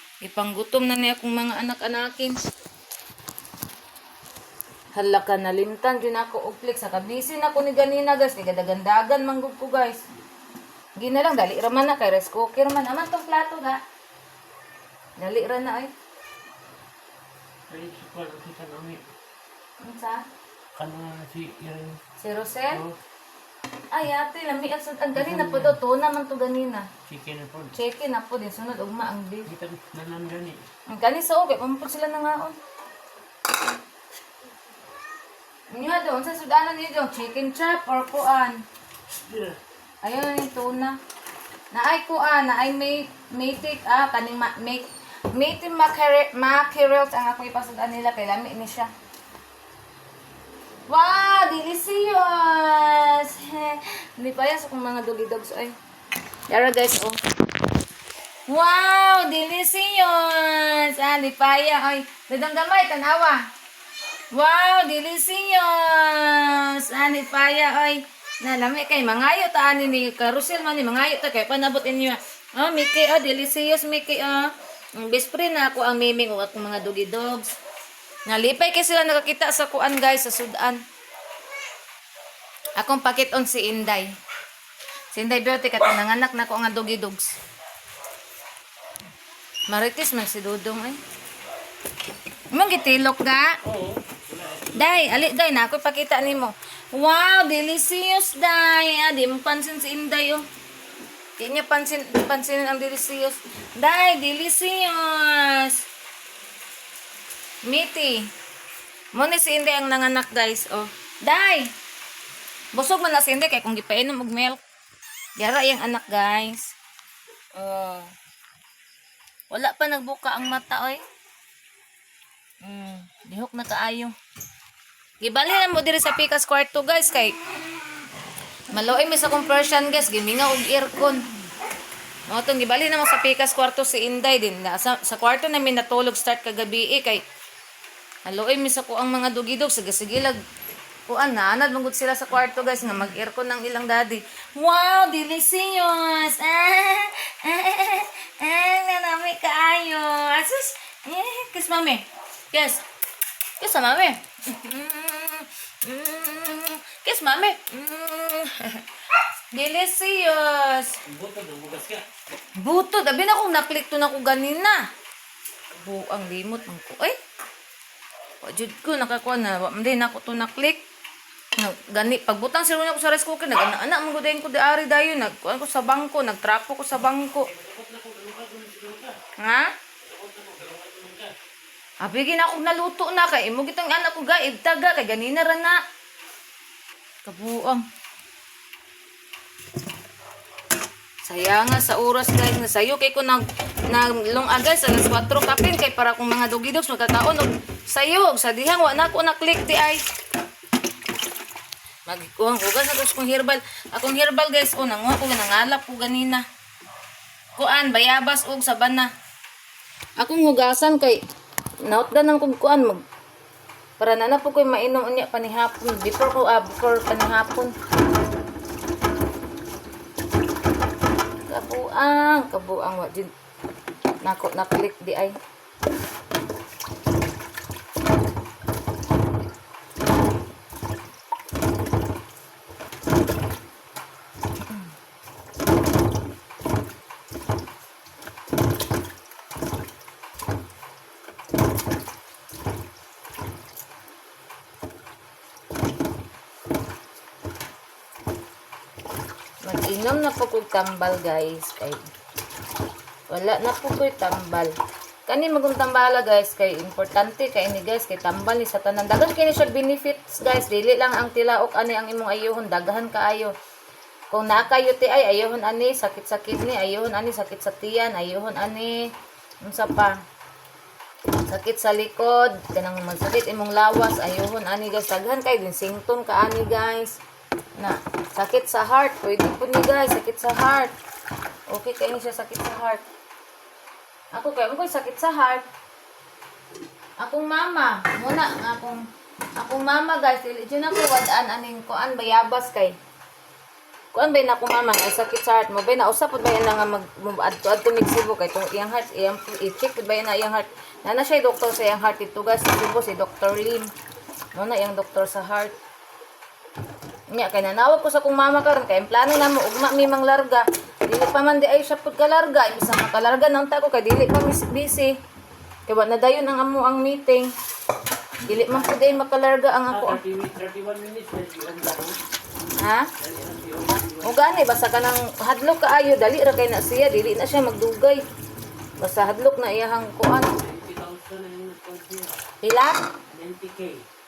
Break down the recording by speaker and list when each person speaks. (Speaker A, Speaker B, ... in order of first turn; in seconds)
Speaker A: 0.2-2.5, 4.9-10.0, 11.0-13.8, 15.2-15.9, 19.8-20.2, 22.2-22.8, 23.9-26.9, 27.7-29.5, 30.9-32.6, 35.7-38.6, 40.0-41.0, 41.7-48.9, 50.9-55.7, 56.5-57.2, 58.5-63.4, 64.3-77.5, 78.3-80.8, 82.8-84.1, 85.1-87.3, 89.7-91.0, 92.5-93.5, 94.7-100.4, 101.4-105.8, 107.7-108.3, 109.1-111.7, 112.7-114.6, 115.4-116.7, 117.5-118.1, 119.5-121.0, 122.6-124.1, 125.2-127.4, 128.7-131.2, 132.3-137.2, 138.2-140.4, 141.1-152.8, 153.6-158.8, 159.5-161.0, 162.6-164.8, 165.7-167.2, 168.4-170.8, 171.6-177.5, 179.4-179.7, 182.0-185.8, 187.2-187.8, 191.3-200.0, 202.1-206.4, 207.6-209.1, 210.2-211.2, 211.8-213.0, 214.0-217.7, 221.5-223.3, 224.2-225.3, 249.6-252.0, 253.3-254.7, 255.3-263.5, 264.3-269.1, 269.6-270.2, 271.5-277.2, 277.8-280.9, 281.7-283.0, 284.3-285.6, 287.2-289.0, 289.6-292.9, 294.1-303.9, 304.5-305.8, 307.3-315.1, 315.9-317.5, 318.4-320.2, 322.8-323.1, 324.2-328.2, 329.0-330.5, 332.6-333.0
Speaker B: 17.7-19.0, 20.7-22.0, 22.7-23.0, 25.1-25.8, 27.1-27.7, 29.5-30.6, 39.1-39.6, 93.6-95.1, 161.1-162.0, 177.4-179.2, 180.0-181.3, 318.5-319.2, 319.9-322.1, 323.2-324.6, 330.6-332.4, 333.3-334.0